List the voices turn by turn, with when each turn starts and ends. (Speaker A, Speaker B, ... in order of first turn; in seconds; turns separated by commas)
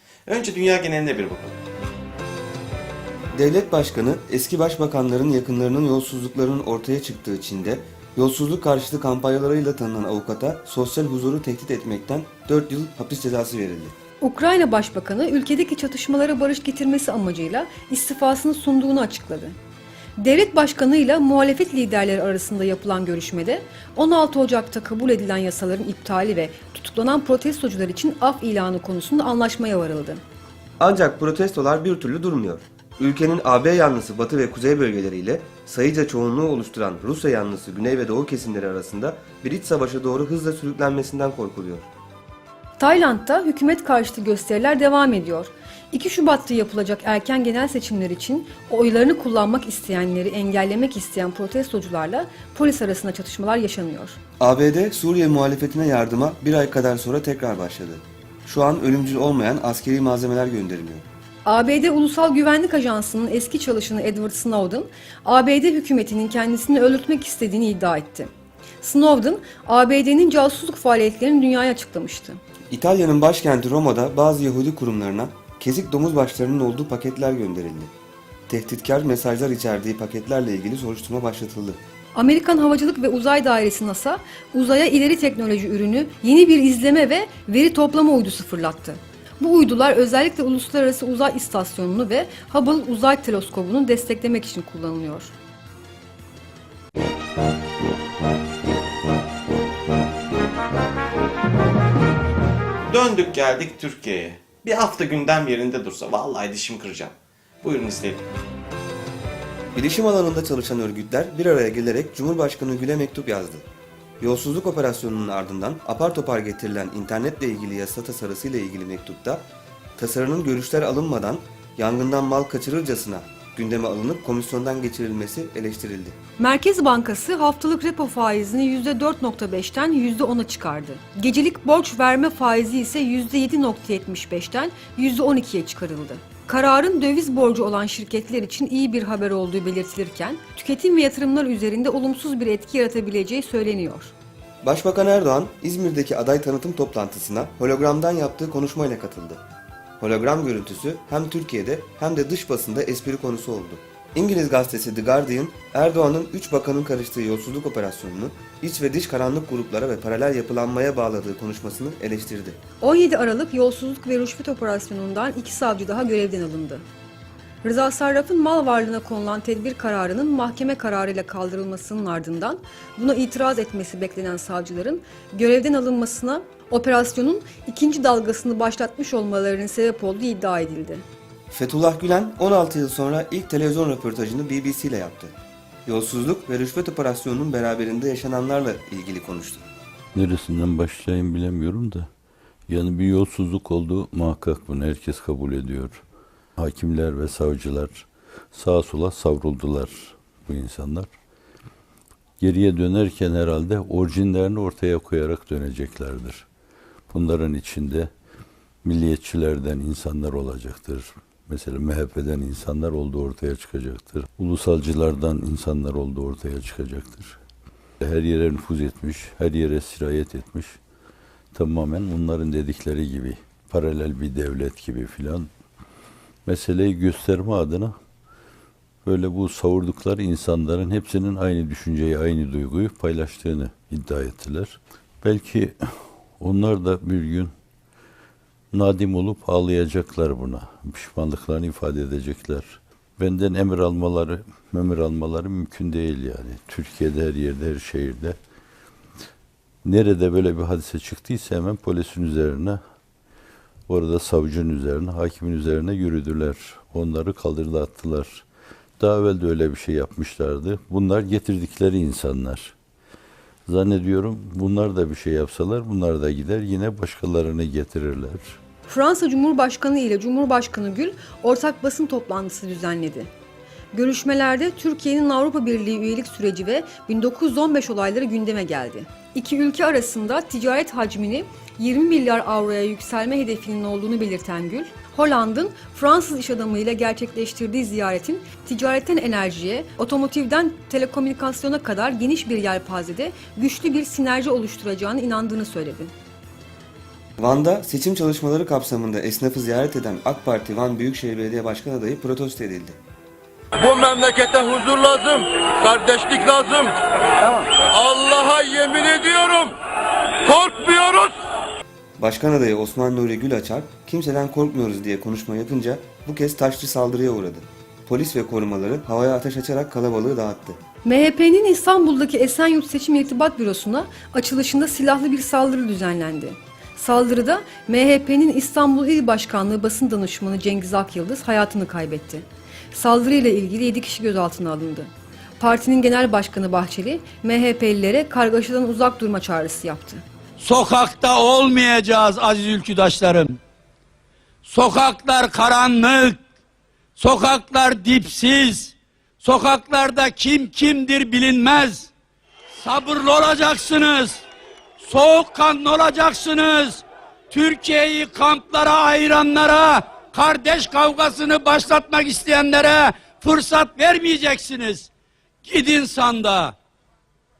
Speaker A: 0.3-1.5, Speaker B: 3.3-13.9, Speaker C: 14.2-19.6, Speaker C: 20.2-30.2, Speaker B: 30.8-41.9, Speaker C: 42.8-54.1, Speaker B: 54.4-61.0, Speaker C: 61.4-72.4, Speaker B: 72.7-77.9, Speaker B: 78.5-81.8, Speaker C: 82.1-95.3, Speaker A: 102.9-107.1, Speaker A: 107.6-108.2, Speaker B: 109.7-113.6, Speaker B: 114.2-119.4, Speaker B: 120.0-126.2, Speaker C: 126.4-144.1, Speaker B: 144.6-149.4, Speaker B: 150.0-162.6, Speaker C: 162.8-166.8, Speaker C: 167.6-181.0, Speaker B: 181.5-185.3, Speaker B: 185.8-189.6, Speaker D: 190.1-192.1, Speaker D: 192.7-196.0, Speaker D: 196.6-201.1, Speaker D: 202.4-206.4, Speaker D: 207.1-208.1, Speaker D: 208.8-217.4, Speaker D: 218.0-220.8, Speaker D: 221.5-225.5, Speaker D: 226.4-227.9, Speaker D: 229.1-235.7, Speaker D: 236.4-237.5, Speaker D: 238.7-248.3, Speaker D: 249.8-252.8, Speaker D: 253.9-258.4, Speaker D: 259.0-262.7, Speaker D: 263.7-268.5, Speaker C: 268.9-273.3, Speaker C: 273.9-296.1, Speaker B: 297.4-303.0, Speaker E: 303.9-306.8, Speaker E: 308.3-309.7, Speaker E: 310.5-311.2, Speaker B: 312.2-320.8, Speaker C: 321.0-340.2, Speaker F: 340.6-343.6, Speaker F: 344.6-346.4, Speaker F: 347.2-352.1, Speaker F: 352.8-354.4, Speaker F: 355.0-365.1, Speaker F: 365.6-366.7